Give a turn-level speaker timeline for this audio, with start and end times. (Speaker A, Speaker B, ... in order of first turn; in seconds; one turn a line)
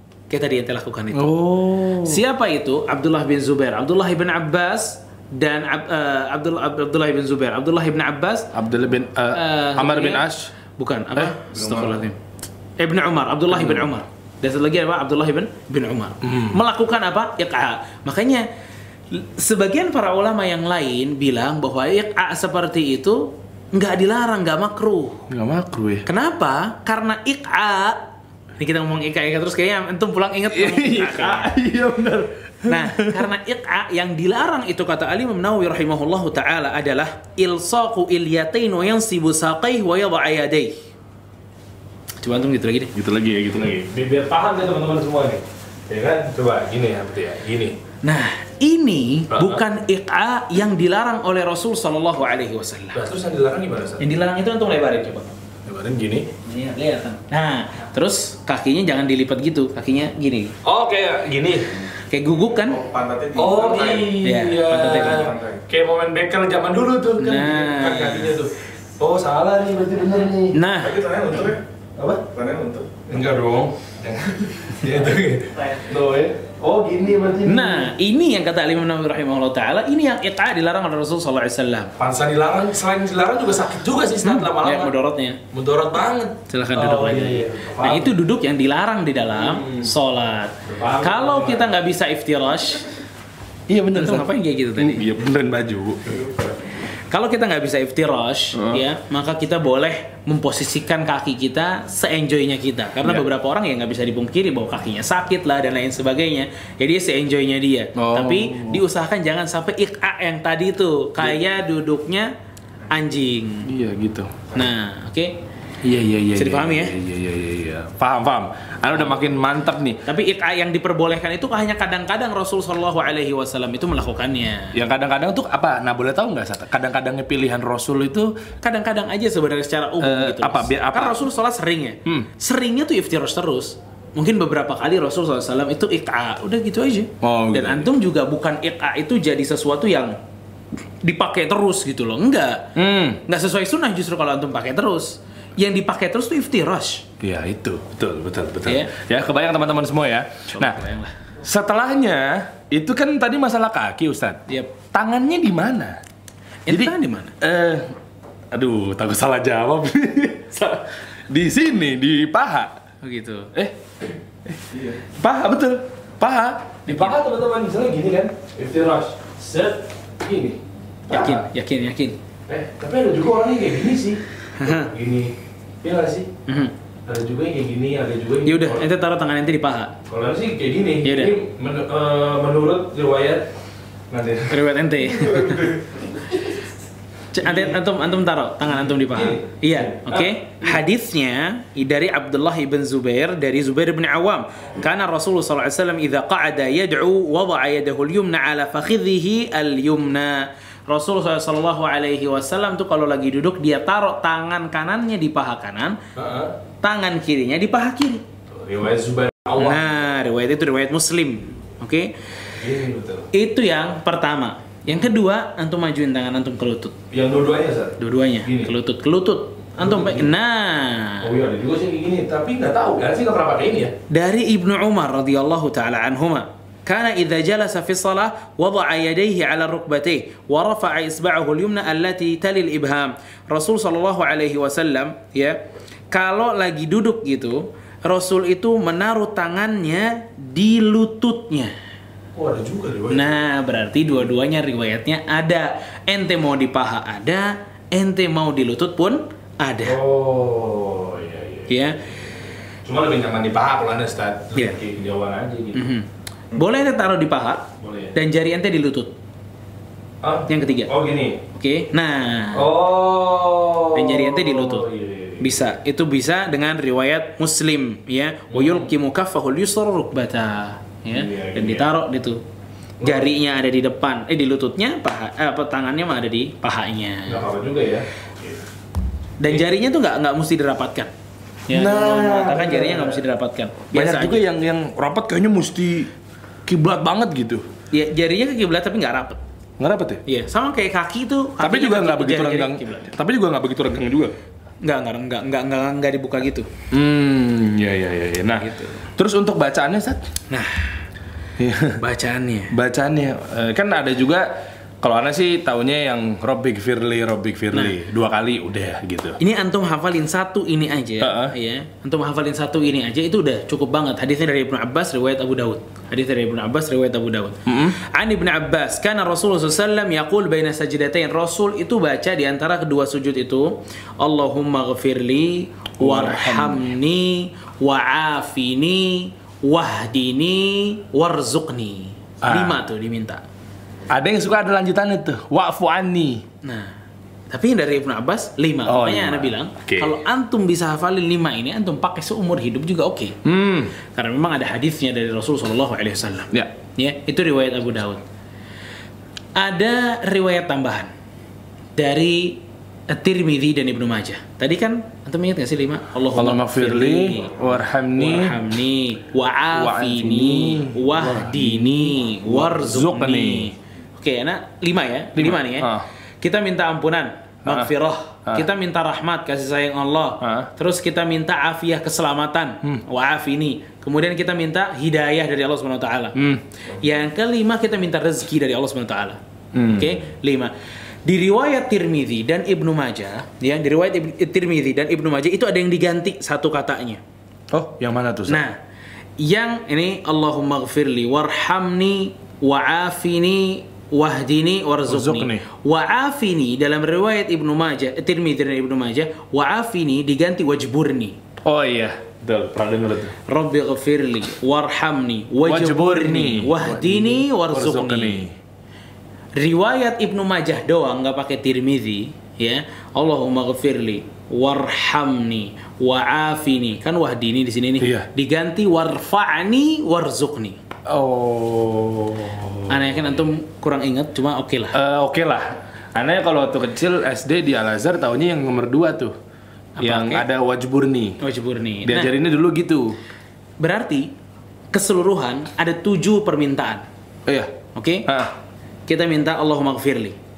Speaker A: 0.3-1.3
Speaker B: 1.1-2.2
Speaker A: 2.0-8.5
Speaker B: 8.5-10.5
Speaker A: 9.3-10.2
Speaker A: 10.8-12.2
Speaker B: 11.1-12.1
Speaker A: 12.8-18.4
Speaker B: 13.5-13.9
Speaker B: 16.2-16.6
Speaker A: 19.1-25.2
Speaker B: 25.3-26.1
Speaker A: 26.1-28.0
Speaker A: 28.6-31.5
Speaker B: 30.5-33.2
Speaker A: 32.6-40.7
Speaker A: 42.2-42.9
Speaker B: 42.9-47.8
Speaker A: 48.0-53.1
Speaker B: 49.3-49.6
Speaker B: 52.9-54.1
Speaker A: 54.0-55.3
Speaker B: 55.7-56.3
Speaker A: 56.4-60.6
Speaker B: 60.6-61.8
Speaker A: 62.0-62.8
Speaker C: 62.7-64.1
Speaker B: 63.3-72.3
Speaker A: 64.2-65.3
Speaker C: 65.0-65.6
Speaker A: 67.2-68.3
Speaker A: 70.5-71.0
Speaker C: 70.9-71.6
Speaker C: 72.2-72.9
Speaker B: 73.0-77.9
Speaker A: 77.4-81.9
Speaker B: 82.0-84.9
Speaker A: 84.2-85.4
Speaker B: 85.5-88.2
Speaker A: 86.5-92.9
Speaker B: 89.5-89.9
Speaker B: 90.7-91.7
Speaker B: 93.7-96.5
Speaker A: 93.9-95.1
Speaker A: 96.9-112.3
Speaker B: 98.5-98.8
Speaker B: 108.0-108.8
Speaker A: 112.9-113.7
Speaker B: 113.6-114.5
Speaker A: 114.5-115.4
Speaker B: 115.8-120.0
Speaker A: 116.3-116.9
Speaker A: 120.1-124.8
Speaker B: 124.7-128.4
Speaker A: 128.6-140.1
Speaker B: 130.0-131.2
Speaker B: 137.2-137.9
Speaker A: 141.0-142.7
Speaker B: 142.7-143.2
Speaker A: 143.3-147.0
Speaker B: 147.2-150.8
Speaker A: 148.7-148.9
Speaker A: 150.5-151.1
Speaker B: 151.4-156.0
Speaker A: 154.5-154.7
Speaker A: 156.7-157.3
Speaker B: 156.7-157.9
Speaker B: 158.5-162.8
Speaker A: 163.0-163.5
Speaker B: 163.5-171.4
Speaker A: 166.9-167.2
Speaker A: 171.1-172.2
Speaker B: 172.5-176.3
Speaker A: 174.6-174.9
Speaker A: 176.5-176.7
Speaker B: 177.1-178.8
Speaker A: 178.4-180.0
Speaker B: 180.1-183.5
Speaker A: 181.0-181.3
Speaker B: 184.1-186.6
Speaker A: 184.5-185.8
Speaker A: 187.3-206.0
Speaker B: 187.4-187.8
Speaker B: 188.7-190.7
Speaker B: 206.2-206.5
Speaker A: 206.8-208.2
Speaker B: 208.5-209.9
Speaker A: 209.6-212.1
Speaker B: 212.5-213.3
Speaker A: 213.3-217.0
Speaker B: 217.1-218.7
Speaker A: 218.0-221.3
Speaker B: 219.8-220.3
Speaker B: 221.2-223.9
Speaker A: 224.1-241.7
Speaker B: 242.3-243.4
Speaker A: 243.1-250.0
Speaker B: 249.8-252.3
Speaker A: 251.7-252.0
Speaker B: 252.8-255.9
Speaker A: 255.7-259.1
Speaker B: 257.8-258.1
Speaker B: 260.2-261.4
Speaker A: 260.5-260.9
Speaker A: 261.5-262.7
Speaker B: 262.5-265.7
Speaker A: 263.9-264.9
Speaker A: 265.4-272.4
Speaker B: 268.5-268.9
Speaker B: 271.1-271.9
Speaker B: 273.0-273.3
Speaker A: 273.0-277.4
Speaker B: 277.3-278.6
Speaker A: 279.4-281.1
Speaker A: 281.7-284.4
Speaker B: 281.7-283.2
Speaker B: 283.9-286.1
Speaker B: 286.6-287.7
Speaker A: 287.9-289.4
Speaker B: 289.8-290.2
Speaker A: 290.2-293.1
Speaker B: 291.6-294.3
Speaker A: 294.8-296.7
Speaker B: 296.9-300.2
Speaker A: 298.6-299.0
Speaker A: 300.5-301.0
Speaker B: 301.6-302.0
Speaker A: 302.0-302.7
Speaker B: 302.7-304.5
Speaker B: 305.0-309.4
Speaker A: 309.4-333.4
Speaker B: 311.2-311.5
Speaker B: 317.7-318.0
Speaker B: 326.0-326.9
Speaker B: 332.4-332.8
Speaker B: 334.1-336.4
Speaker A: 336.6-336.9
Speaker A: 337.5-343.3
Speaker B: 338.9-340.1
Speaker B: 343.4-343.9
Speaker A: 344.1-348.2
Speaker A: 349.5-351.1
Speaker A: 351.9-376.4
Speaker B: 356.3-358.6
Speaker B: 359.7-363.7
Speaker B: 365.4-366.0
Speaker B: 367.6-367.9
Speaker B: 370.4-370.7
Speaker B: 376.3-376.6
Speaker A: 376.9-379.4
Speaker B: 379.7-380.2
Speaker A: 379.9-380.7
Speaker A: 381.2-387.2
Speaker B: 387.7-388.6
Speaker A: 388.5-388.8
Speaker A: 389.4-401.4
Speaker B: 395.1-395.6
Speaker B: 401.6-403.4
Speaker A: 403.5-408.4
Speaker B: 405.6-408.5
Speaker A: 409.6-420.8
Speaker B: 418.0-418.3
Speaker B: 421.1-423.4
Speaker A: 422.9-425.0
Speaker B: 424.9-429.3
Speaker A: 430.0-430.4
Speaker B: 430.0-431.4
Speaker A: 431.4-432.3
Speaker B: 432.0-433.2
Speaker A: 433.8-434.3
Speaker A: 434.9-437.0
Speaker B: 437.5-437.7
Speaker A: 437.9-438.2
Speaker B: 438.2-438.5
Speaker A: 439.1-440.4